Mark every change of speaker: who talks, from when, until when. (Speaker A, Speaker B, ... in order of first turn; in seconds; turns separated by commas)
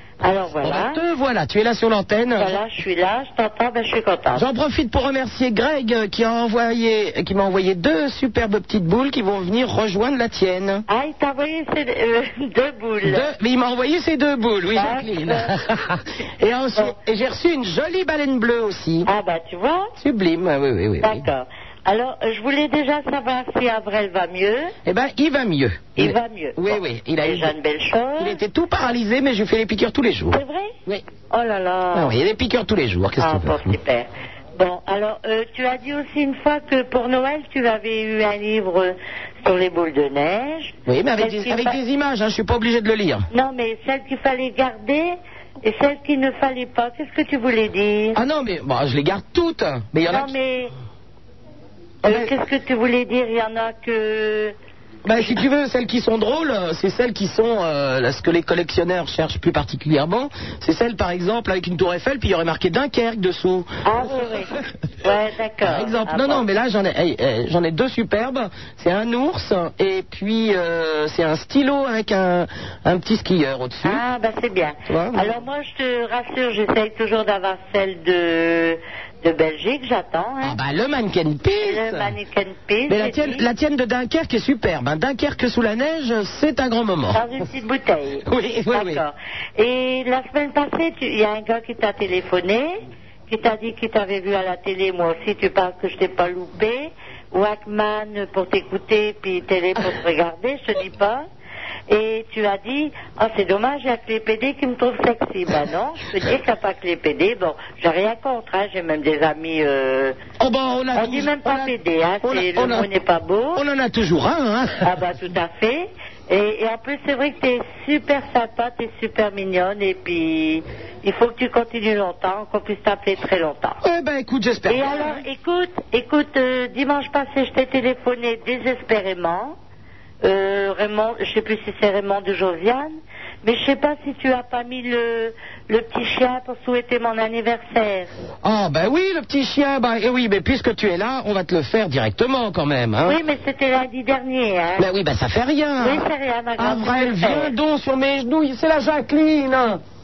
Speaker A: 0.2-1.0, Speaker B: 0.6-2.6, Speaker A: 2.4-4.5, Speaker B: 4.3-10.8, Speaker A: 10.9-13.3, Speaker B: 13.0-19.1, Speaker A: 14.7-15.5, Speaker A: 19.1-19.9, Speaker B: 20.0-21.3, Speaker A: 21.0-24.7, Speaker B: 24.9-27.5, Speaker A: 25.9-28.4, Speaker B: 28.2-31.0, Speaker A: 30.3-30.7, Speaker A: 31.3-32.1, Speaker B: 31.9-33.8, Speaker A: 33.2-41.8, Speaker B: 40.9-43.2, Speaker A: 43.3-48.2, Speaker B: 48.1-50.3, Speaker A: 50.1-50.7, Speaker B: 52.0-52.3, Speaker A: 52.0-54.5, Speaker B: 55.0-63.7, Speaker A: 63.8-64.5, Speaker A: 65.0-66.5, Speaker B: 65.6-74.0, Speaker A: 73.8-80.6, Speaker B: 74.9-75.3, Speaker B: 80.4-82.1, Speaker A: 81.6-83.5, Speaker B: 82.9-87.2, Speaker A: 87.1-101.2, Speaker B: 88.2-89.0, Speaker A: 101.9-110.2, Speaker B: 110.4-112.9, Speaker A: 110.9-113.6, Speaker B: 113.5-114.8, Speaker A: 114.8-123.8, Speaker B: 123.8-125.2, Speaker A: 124.7-129.6, Speaker A: 130.2-138.1, Speaker B: 138.4-143.2, Speaker A: 143.0-144.9, Speaker B: 144.8-146.1, Speaker A: 145.8-147.5, Speaker B: 146.6-149.8